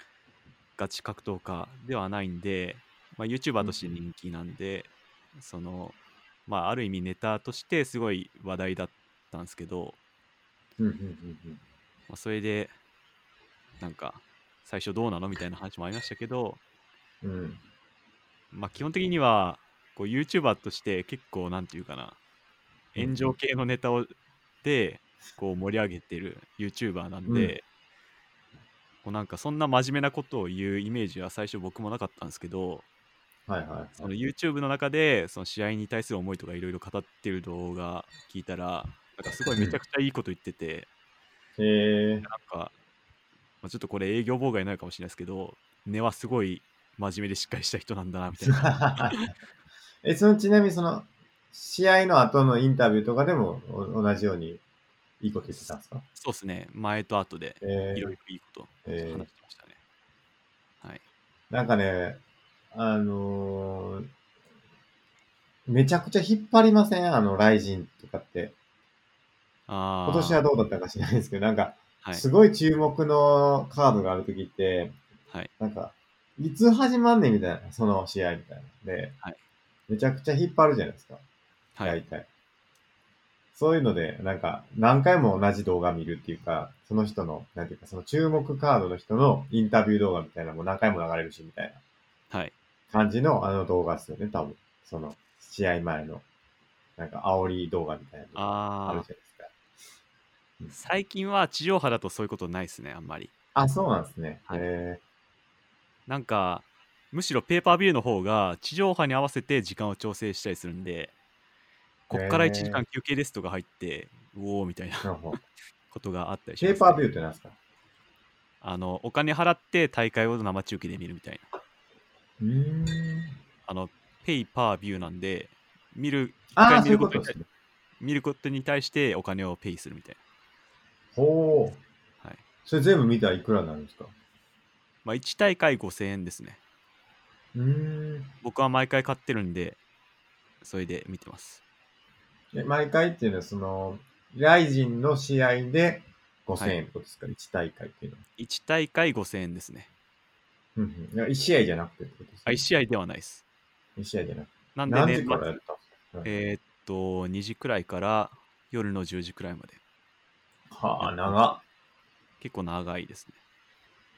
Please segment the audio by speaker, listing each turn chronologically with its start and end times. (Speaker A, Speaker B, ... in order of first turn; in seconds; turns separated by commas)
Speaker A: 0.8-6.0, Speaker B: 3.6-4.0, Speaker A: 6.5-10.0, Speaker B: 10.8-11.6, Speaker A: 12.1-12.7, Speaker A: 13.8-16.6, Speaker B: 17.2-17.6, Speaker A: 18.5-22.2, Speaker A: 22.9-27.6, Speaker B: 23.0-23.3, Speaker B: 27.3-27.5, Speaker A: 29.0-32.9, Speaker B: 33.5-34.1, Speaker A: 34.0-40.9, Speaker B: 41.6-42.3, Speaker A: 42.2-42.7, Speaker A: 43.6-49.3, Speaker B: 48.4-49.3, Speaker B: 50.0-54.6, Speaker B: 55.2-56.0, Speaker A: 56.2-59.8, Speaker B: 57.6-58.1, Speaker B: 58.9-59.3, Speaker B: 61.5-62.2, Speaker B: 62.7-64.1, Speaker B: 65.7-68.5, Speaker A: 69.7-70.4, Speaker B: 70.1-75.0, Speaker B: 75.6-79.2, Speaker B: 79.9-81.2, Speaker B: 81.8-82.3, Speaker B: 83.5-91.8, Speaker B: 92.9-96.2, Speaker B: 97.0-99.5, Speaker A: 98.3-99.1, Speaker A: 100.7-103.3, Speaker B: 103.5-105.0, Speaker A: 106.1-111.1, Speaker A: 112.1-115.4, Speaker B: 112.1-112.8, Speaker B: 115.0-115.4, Speaker A: 115.9-117.0, Speaker B: 116.6-117.6, Speaker A: 118.6-121.5, Speaker B: 122.4-123.4, Speaker A: 123.7-127.4, Speaker B: 126.5-127.5, Speaker A: 128.0-130.2, Speaker B: 131.2-131.8, Speaker B: 132.7-134.1, Speaker A: 135.0-136.6, Speaker B: 137.6-138.3, Speaker A: 138.4-139.8, Speaker A: 140.6-141.6, Speaker B: 142.5-148.2, Speaker A: 148.4-149.9, Speaker B: 150.8-152.6, Speaker A: 152.5-153.4, Speaker B: 154.0-156.3, Speaker A: 154.8-155.6, Speaker A: 156.2-159.8, Speaker B: 160.7-161.6, Speaker A: 161.0-161.6, Speaker A: 162.4-163.4